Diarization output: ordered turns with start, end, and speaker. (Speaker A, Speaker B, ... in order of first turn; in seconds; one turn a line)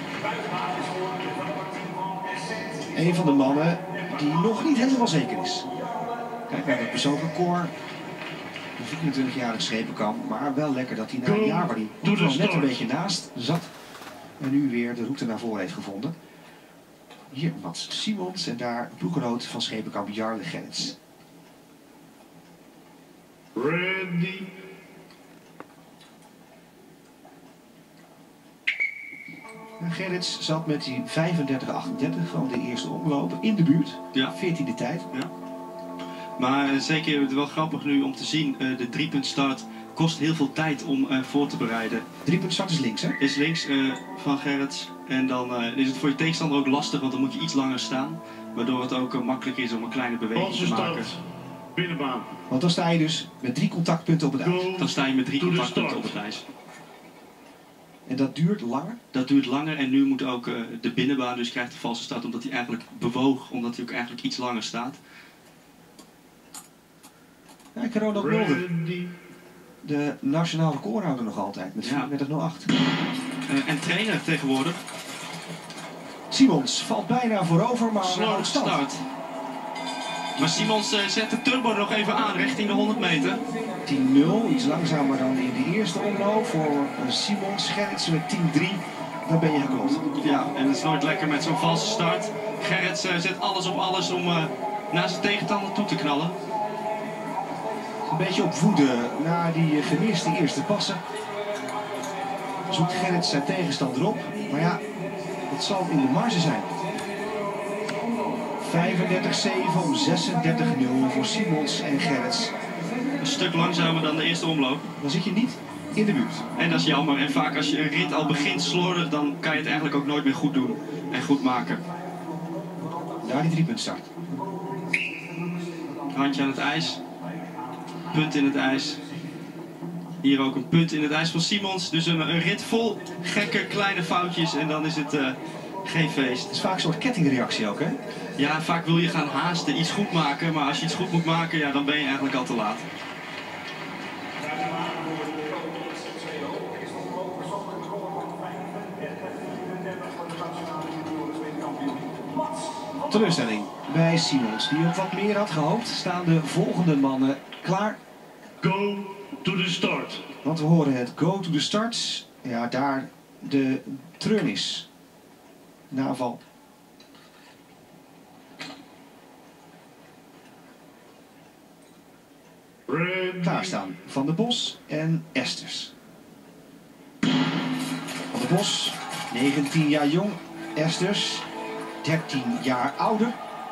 Speaker A: 2.9-5.7
Speaker A: 6.5-7.7
Speaker A: 8.8-13.7
Speaker B: 11.2-12.9
Speaker A: 14.4-16.1
Speaker A: 17.3-21.0
Speaker B: 23.5-24.5
Speaker A: 29.8-35.1
Speaker C: 36.4-42.1
Speaker A: 42.2-43.2
Speaker C: 43.2-51.1
Speaker B: 50.3-51.2
Speaker B: 51.7-52.3
Speaker A: 52.5-54.7
Speaker B: 54.4-56.1
Speaker C: 54.8-56.4
Speaker A: 58.1-59.0
Speaker C: 59.1-65.0
Speaker A: 67.7-68.7
Speaker B: 68.1-69.2
Speaker A: 69.8-72.7
Speaker C: 71.8-72.1
Speaker C: 73.5-74.8
Speaker A: 76.3-78.8
Speaker C: 78.0-79.0
Speaker A: 80.3-80.7
Speaker C: 80.4-83.4
Speaker A: 83.8-90.0
Speaker C: 90.2-96.3
Speaker A: 98.1-101.0
Speaker A: 102.7-104.8
Speaker A: 105.5-106.7
Speaker A: 108.6-112.5
Speaker C: 113.2-114.8
Speaker A: 115.0-116.5
Speaker C: 116.5-121.8
Speaker A: 123.2-124.1
Speaker C: 126.1-127.0
Speaker C: 128.1-129.0
Speaker C: 130.2-136.5
Speaker A: 136.5-137.9
Speaker C: 138.4-142.8
Speaker A: 153.1-158.0
Speaker B: 158.6-160.2
Speaker A: 160.4-164.9
Speaker A: 165.9-166.4
Speaker B: 172.9-173.8
Speaker A: 173.4-175.9
Speaker A: 178.3-181.4
Speaker A: 182.0-183.3